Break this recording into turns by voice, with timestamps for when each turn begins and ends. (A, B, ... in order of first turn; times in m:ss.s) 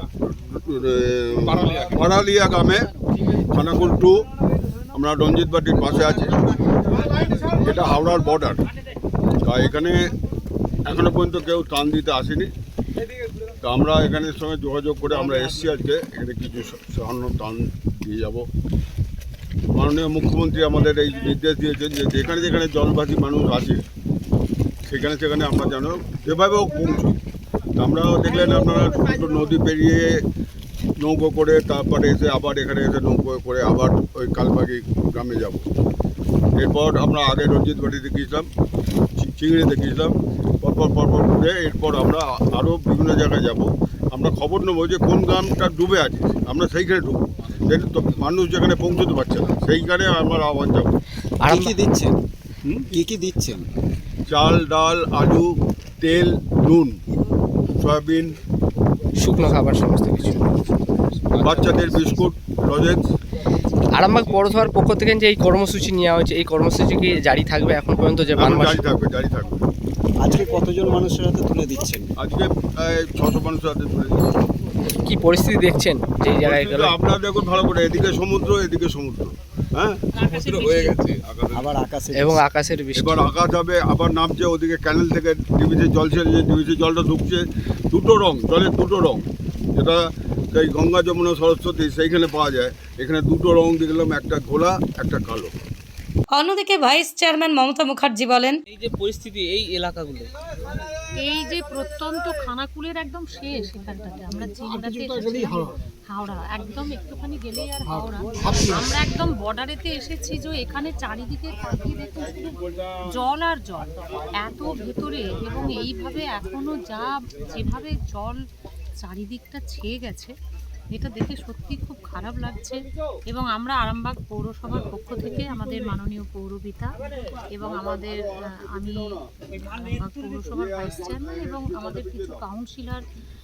0:00.3-0:02.9 A
0:03.5-0:04.2 A
0:04.9-0:06.4 A
0:07.5-0:08.6 A
0:09.4-0:10.1 A
0:10.8-0:12.5 A
0:13.6-0:18.4 A
0:19.7-0:23.8 A
0:24.9-0:27.2 A
0:27.8-0:30.2 A
0:31.0-0:35.6 A
0:36.6-0:38.5 A
0:39.2-0:50.9 A
0:51.5-0:52.1 B
0:52.9-0:53.6 B
0:54.3-0:57.0 A
0:57.8-0:58.4 A
0:59.2-1:00.4 C
1:01.4-1:03.1 A
1:04.0-1:08.7 C
1:08.3-1:09.7 A
1:10.2-1:12.0 B
1:12.2-1:14.3 A
1:15.0-1:16.9 C
1:16.3-1:21.7 A
1:20.2-1:21.0 D
1:21.6-1:22.4 B
1:22.2-1:23.1 C
1:22.9-1:29.2 A
1:29.8-1:30.0 A
1:30.5-1:35.5 A
1:36.3-1:38.6 E
1:38.7-1:40.3 D
1:41.2-1:58.4 F
1:59.0-2:00.3 F
2:00.9-2:07.0 F
2:07.5-2:13.0 F